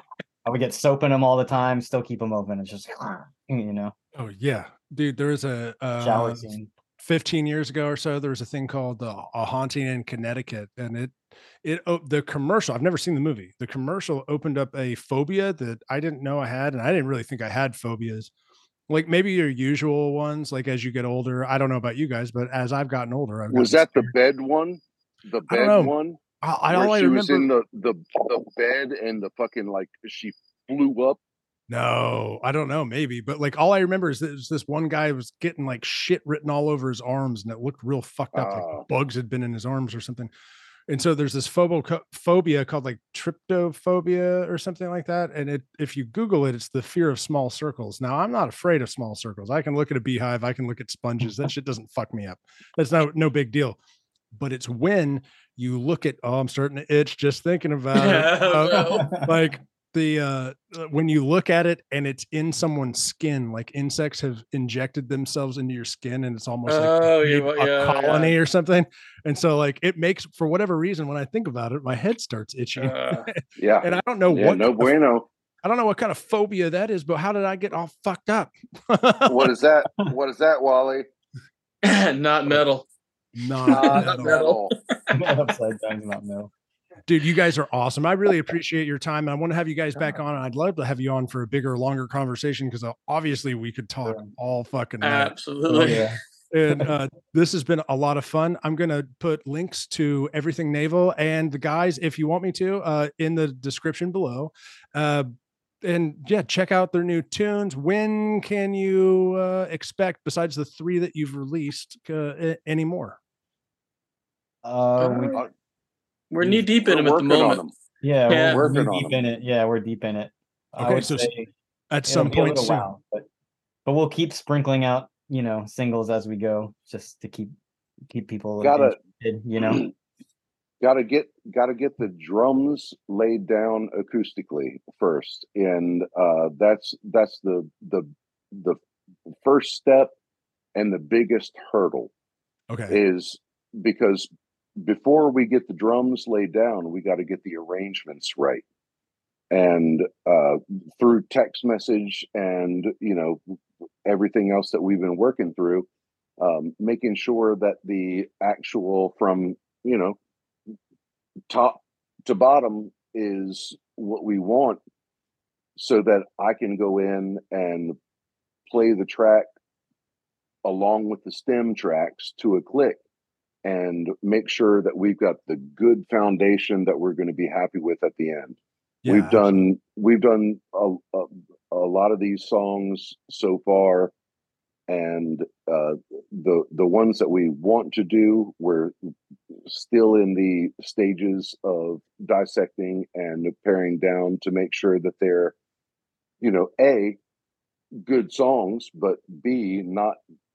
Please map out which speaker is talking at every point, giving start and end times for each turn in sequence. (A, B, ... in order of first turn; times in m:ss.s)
0:00.4-0:03.9 A
0:04.2-0:18.3 B
0:06.0-0:06.7 A
0:18.9-0:24.1 B
0:23.5-0:26.2 C
0:25.5-0:27.5 B
0:26.7-0:31.2 C
0:31.7-0:40.3 B
0:38.3-0:38.8 C
0:40.9-0:53.8 B
0:54.3-1:15.0 B
0:57.9-0:59.2 D
0:58.7-0:59.3 A
1:06.7-1:08.3 D
1:12.8-1:13.3 D
1:13.6-1:15.3 C
1:15.6-1:19.6 B
1:19.3-1:21.1 C
1:21.8-1:22.9 D
1:23.4-1:24.5 B
1:23.7-1:24.7 C
1:23.7-1:25.1 D
1:25.1-1:26.5 A
1:27.0-1:35.9 B
1:35.0-1:36.1 D
1:35.7-1:36.2 A
1:36.5-1:45.3 B
1:45.8-1:53.2 B
1:54.6-1:55.4 A
1:55.0-1:55.4 D
1:56.3-1:57.6 D
1:56.8-1:57.7 C
1:58.0-2:01.5 A
1:58.3-1:58.8 D
1:58.3-1:59.2 C
2:00.8-2:01.3 B
2:01.9-2:02.9 B
2:02.0-2:03.2 A
2:03.8-2:07.5 A
2:08.1-2:09.8 A
2:08.6-2:09.0 C
2:09.6-2:09.9 C
2:10.8-2:18.8 C
2:19.4-2:20.1 C
2:20.7-2:22.1 C
2:22.7-2:23.0 B
2:22.9-2:24.3 C
2:24.8-2:28.6 C
2:29.5-2:33.4 C
2:34.0-2:35.9 C
2:36.4-2:40.2 C
2:41.5-2:44.8 C
2:45.8-2:48.0 C
2:48.7-2:49.5 C
2:50.6-2:53.0 C
2:53.6-3:04.1 C
2:59.0-2:59.6 B
3:04.9-3:08.9 C
3:09.7-3:15.5 C
3:16.4-3:17.2 C
3:18.0-3:20.2 C